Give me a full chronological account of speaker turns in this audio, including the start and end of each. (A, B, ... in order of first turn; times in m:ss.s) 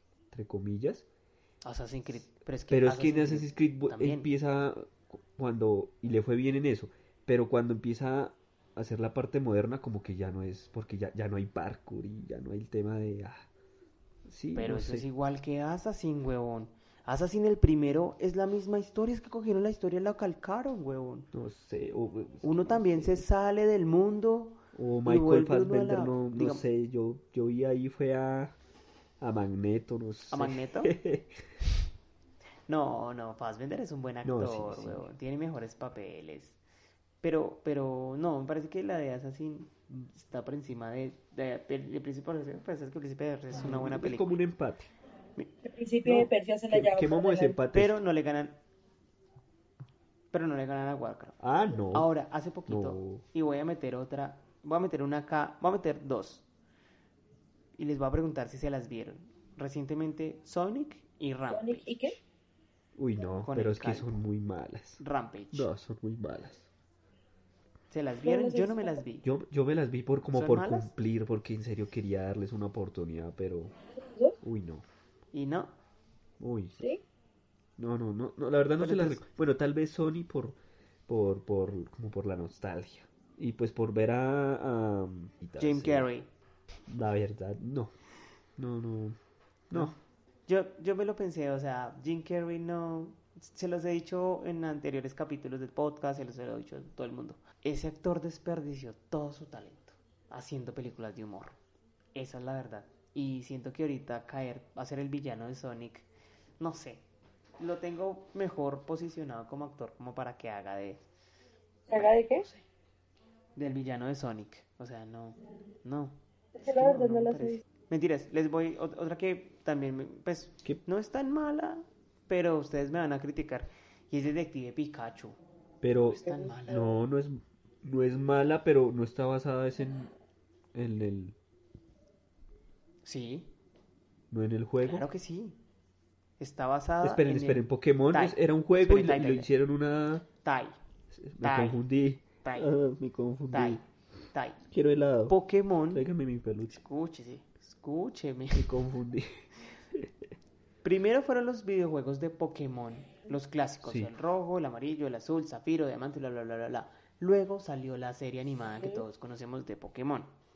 0:00.3-0:01.0 A
0:01.6-0:04.3 B
0:02.7-0:13.5 A
0:14.3-0:15.1 A
0:14.6-0:21.3 B
0:21.3-0:23.2 A
0:22.4-0:26.6 B
0:24.7-0:28.6 A
0:29.2-0:31.4 A
0:30.3-0:31.0 B
0:32.7-0:36.6 B
0:34.2-0:35.1 A
0:37.2-0:44.4 B
0:43.5-0:44.9 A
0:45.6-0:47.6 C
0:46.1-0:48.0 A
0:47.7-0:48.6 B
0:50.3-0:56.4 B
0:51.4-0:52.1 A
0:52.7-0:53.2 A
0:57.8-1:02.2 B
1:01.5-1:02.2 C
1:03.0-1:05.0 A
1:03.4-1:04.2 B
1:05.0-1:05.7 B
1:05.5-1:06.7 A
1:07.9-1:09.3 B
1:08.2-1:09.0 C
1:09.2-1:13.7 A
1:10.3-1:10.9 B
1:14.0-1:14.4 C
1:14.4-1:14.8 A
1:15.3-1:15.7 B
1:16.4-1:16.8 A
1:17.8-1:26.1 A
1:18.8-1:19.2 B
1:25.6-1:26.3 B
1:26.9-1:27.9 A
1:28.6-1:29.2 A
1:29.7-1:30.0 A
1:29.7-1:41.6 B
1:42.2-1:46.1 B
1:46.6-1:47.0 B
1:47.6-1:51.0 B
1:51.9-1:52.5 C
1:52.0-1:52.6 B
1:53.6-2:05.4 B
1:56.6-1:57.6 C
2:05.8-2:10.1 A
2:06.0-2:07.0 B
2:06.2-2:06.6 C
2:10.7-2:11.4 A
2:13.0-2:13.5 B
2:14.3-2:15.1 A
2:14.8-2:15.6 B
2:16.4-2:19.5 B
2:17.0-2:20.3 A
2:20.4-2:20.8 B
2:21.1-2:23.8 A
2:21.4-2:21.8 B
2:22.4-2:22.7 B
2:23.5-2:24.6 B
2:24.7-2:25.4 A
2:25.3-2:26.1 B
2:25.9-2:26.8 A
2:26.7-2:28.8 B
2:28.5-2:30.1 A
2:30.8-2:40.3 B
2:33.8-2:34.1 A
2:38.8-2:39.0 C